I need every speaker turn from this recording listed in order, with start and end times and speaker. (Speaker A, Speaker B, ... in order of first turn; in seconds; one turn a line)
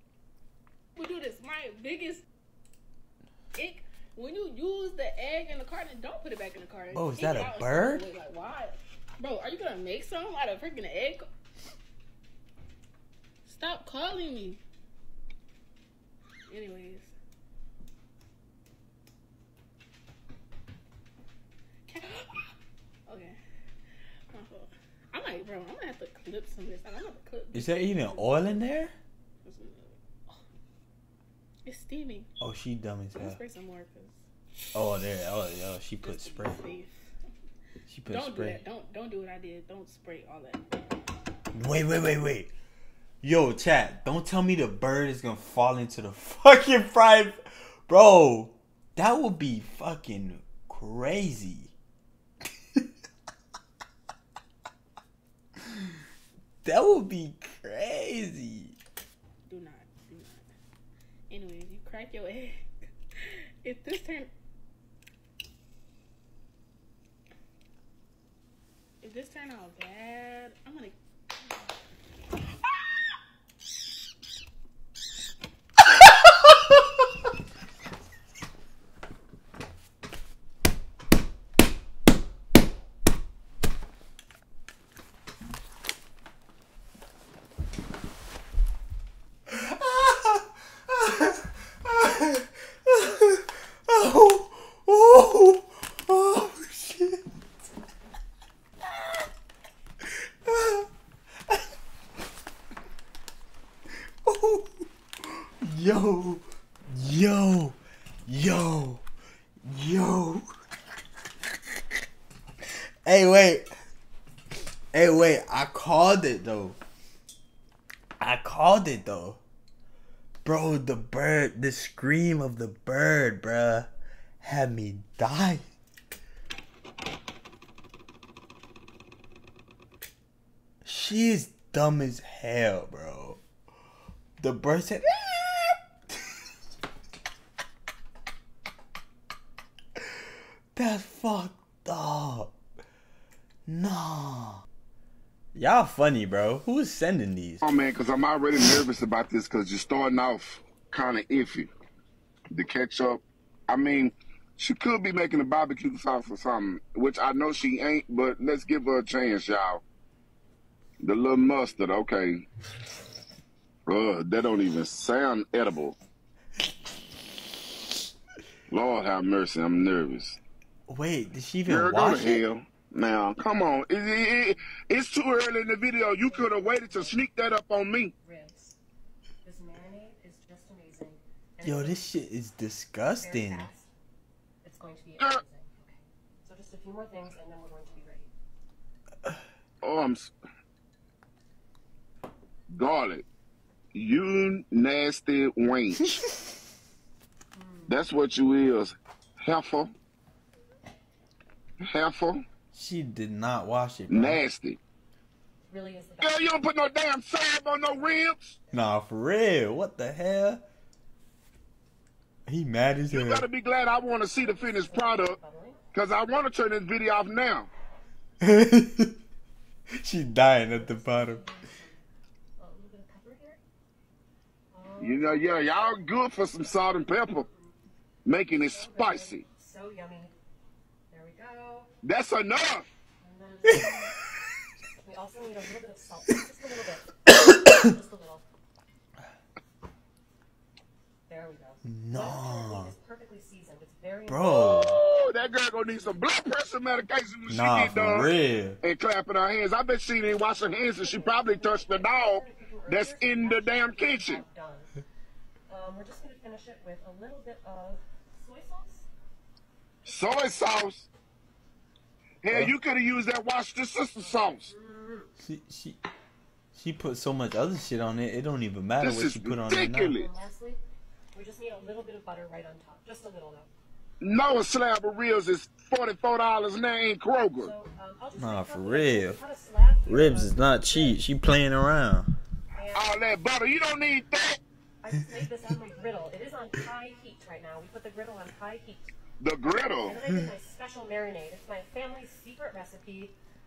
Speaker A: 0.9-2.2
Speaker A: 3.5-11.2
Speaker B: 6.9-8.1
Speaker A: 13.4-14.6
Speaker A: 16.5-17.1
Speaker A: 21.9-22.5
Speaker A: 23.1-23.4
Speaker A: 24.3-28.6
Speaker B: 27.5-28.9
Speaker A: 29.4-30.4
Speaker A: 31.6-32.3
Speaker B: 32.4-33.4
Speaker A: 33.1-34.2
Speaker B: 34.7-36.7
Speaker A: 36.0-36.9
Speaker B: 37.9-38.6
Speaker A: 38.1-40.8
Speaker B: 41.5-42.5
Speaker B: 43.2-51.7
Speaker B: 56.6-58.8
Speaker A: 59.5-60.5
Speaker A: 61.3-62.6
Speaker A: 63.6-64.3
Speaker A: 69.0-71.0
Speaker B: 89.5-97.2
Speaker B: 100.1-100.9
Speaker B: 104.2-104.9
Speaker B: 105.6-109.0
Speaker B: 109.7-110.5
Speaker B: 113.0-113.7
Speaker B: 114.9-116.8
Speaker B: 118.2-119.4
Speaker B: 120.4-125.6
Speaker B: 130.8-133.4
Speaker B: 134.4-135.8
Speaker B: 140.7-142.5
Speaker B: 143.7-144.6
Speaker B: 145.5-147.6
Speaker C: 147.6-151.7
Speaker C: 152.5-159.8
Speaker C: 161.0-162.4
Speaker C: 163.9-165.9
Speaker C: 168.7-170.4
Speaker B: 170.9-172.4
Speaker C: 171.7-178.1
Speaker D: 176.0-177.2
Speaker D: 178.2-178.7
Speaker D: 179.4-182.1
Speaker B: 181.6-183.7
Speaker D: 183.2-183.9
Speaker D: 184.6-188.3
Speaker C: 189.8-190.3
Speaker C: 192.7-193.2
Speaker C: 193.9-196.2
Speaker D: 197.5-198.0
Speaker C: 197.9-199.9
Speaker C: 201.8-202.4
Speaker B: 202.7-204.4
Speaker C: 204.1-204.8
Speaker D: 205.7-206.6
Speaker C: 206.2-208.6
Speaker B: 208.7-210.6
Speaker B: 212.5-213.5
Speaker C: 213.1-215.4
Speaker D: 214.4-215.8
Speaker C: 215.9-217.7
Speaker B: 218.4-219.1
Speaker B: 220.0-221.4
Speaker D: 220.6-222.0
Speaker D: 222.6-223.6
Speaker D: 224.7-226.1
Speaker C: 225.0-227.4
Speaker D: 226.6-227.7
Speaker C: 228.2-229.4
Speaker D: 228.7-230.3
Speaker D: 231.1-231.9
Speaker C: 232.0-232.9
Speaker D: 233.2-234.1
Speaker D: 235.0-238.4
Speaker D: 241.3-246.2
Speaker B: 241.8-242.9
Speaker B: 244.3-245.0
Speaker C: 244.6-254.4
Speaker B: 247.5-248.8
Speaker D: 250.8-255.0
Speaker D: 255.7-259.1
Speaker C: 260.1-261.1
Speaker D: 260.2-260.7
Speaker C: 262.4-264.7
Speaker D: 264.2-265.3
Speaker B: 265.4-266.0
Speaker B: 266.7-270.1
Speaker C: 269.0-270.3
Speaker D: 270.1-270.8
Speaker D: 271.3-273.7
Speaker C: 274.2-277.7
Speaker D: 277.6-281.2
Speaker B: 278.4-279.4
Speaker B: 280.0-282.4
Speaker D: 282.7-283.2
Speaker C: 282.9-284.6
Speaker D: 285.0-289.1
Speaker C: 289.4-290.2
Speaker D: 290.0-293.4